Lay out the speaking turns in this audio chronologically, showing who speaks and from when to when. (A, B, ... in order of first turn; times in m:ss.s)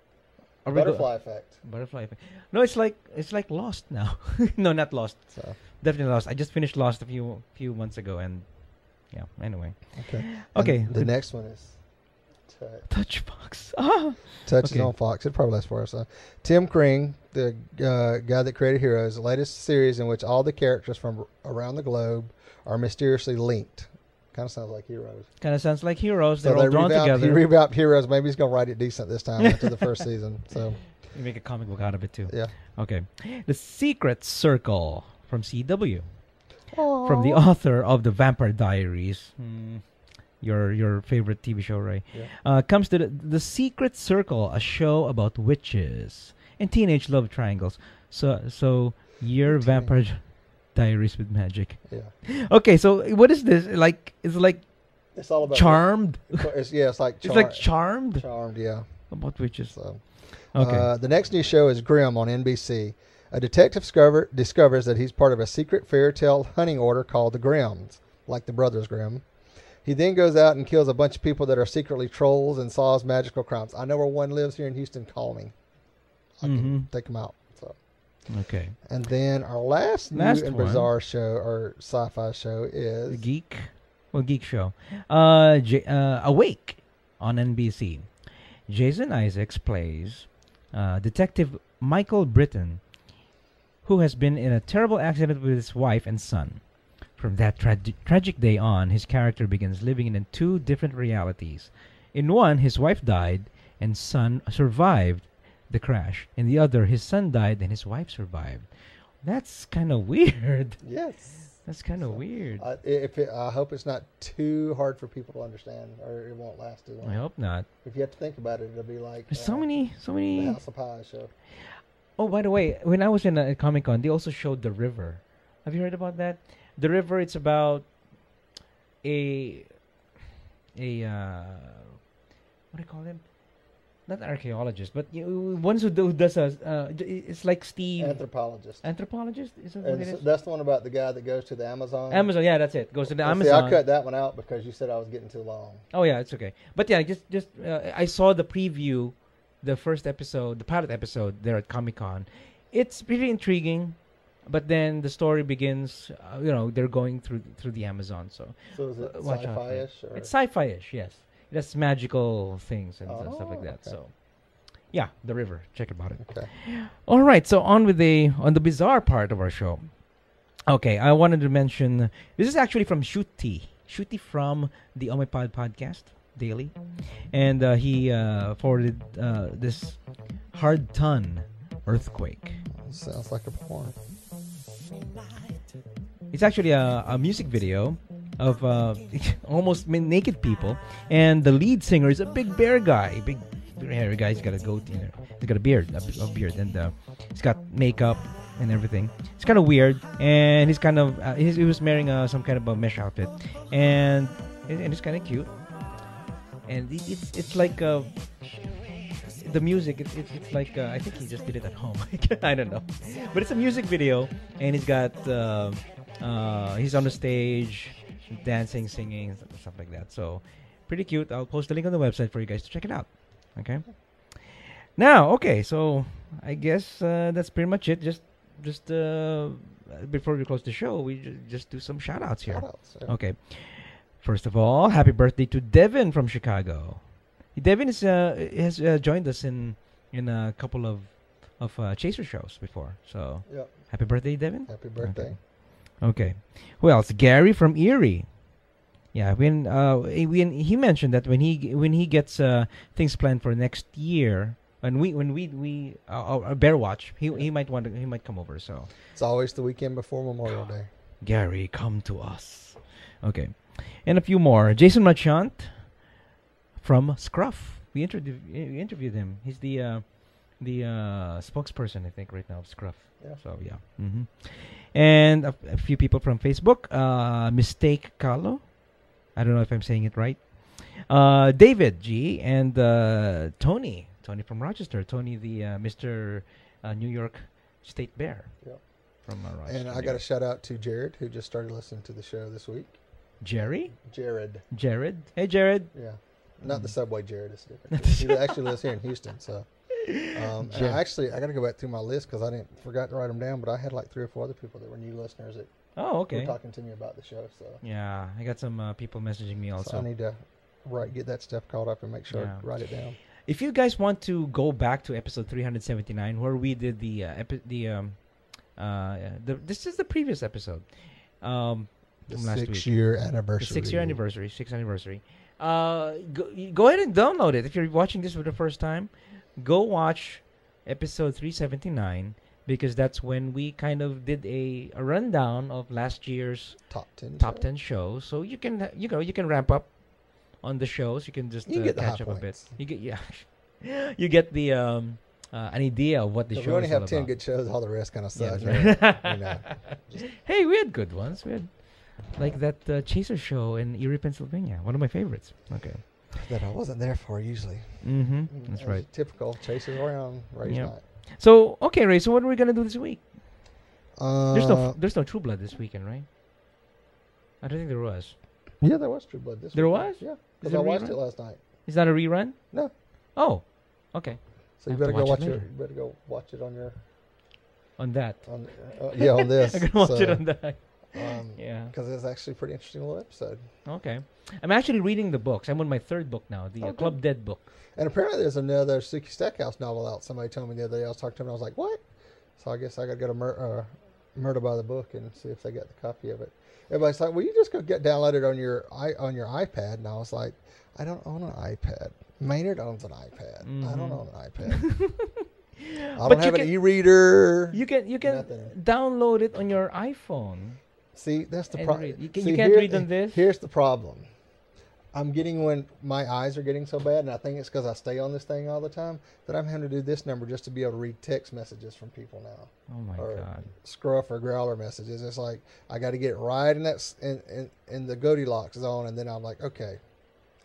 0:00.6-0:11.1 A
0:00.7-0:01.6 B
0:10.0-0:12.9 B
0:12.9-0:14.9 A
0:14.5-0:25.4 B
0:25.4-0:27.5 A
0:26.4-0:31.0 B
0:29.5-0:30.0 A
0:31.0-0:56.6 A
0:32.3-0:32.6 B
0:36.7-0:37.4 B
0:49.4-0:50.0 B
0:51.9-0:52.1 B
0:55.1-1:15.8 B
0:57.2-1:00.9 A
1:16.3-1:18.3 B
1:16.4-1:16.9 A
1:18.3-1:18.8 A
1:18.8-1:23.3 B
1:20.1-1:20.9 A
1:23.1-1:33.0 A
1:33.8-1:52.6 A
1:50.8-2:01.3 B
1:57.0-1:57.7 A
1:59.3-2:00.6 A
2:02.2-2:08.0 A
2:09.0-2:09.9 A
2:10.8-2:12.0 A
2:12.7-2:20.2 A
2:18.0-2:19.1 B
2:19.8-2:25.9 B
2:22.1-2:23.8 A
2:25.9-2:50.1 A
2:38.7-2:40.3 B
2:43.0-2:44.0 B
2:46.2-2:46.5 B
2:50.7-3:02.6 A
3:02.7-3:04.0 B
3:06.3-3:25.7 A
3:26.6-3:28.7 A
3:29.4-4:08.5 A
3:52.5-3:53.2 B
4:03.5-4:05.4 B
4:09.1-4:18.9 A
4:19.1-4:20.9 B
4:21.2-4:26.1 A
4:26.8-4:50.2 A
4:33.2-4:33.4 B
4:49.6-4:54.7 B
4:53.4-4:54.0 A
4:54.7-4:55.9 A
4:55.9-5:07.8 B
4:56.7-4:57.0 A
4:58.0-4:58.7 A
5:00.0-5:01.0 A
5:06.0-5:06.6 A
5:07.8-5:10.1 A
5:09.8-5:13.2 B
5:12.3-5:47.4 A
5:22.3-5:24.2 B
5:36.9-5:37.7 B
5:41.7-5:42.8 B
5:46.5-5:50.3 B
5:48.3-5:49.7 A
5:50.4-5:56.3 A
5:56.3-6:01.0 B
5:58.0-5:59.3 A
6:00.6-6:03.8 A
6:04.2-6:05.0 B
6:04.5-6:06.3 A
6:07.6-6:08.4 A
6:08.8-6:11.8 B
6:09.7-6:15.7 A
6:14.8-6:17.0 B
6:18.0-6:21.9 A
6:18.4-6:23.6 B
6:23.8-6:27.7 A
6:26.8-6:32.0 B
6:32.6-6:45.3 B
6:43.6-6:45.2 A
6:46.2-6:48.8 B
6:46.2-6:46.8 A
6:47.7-6:50.8 A
6:51.1-6:54.3 B
6:51.7-6:53.4 A
6:55.1-7:10.0 B
7:02.9-7:03.7 A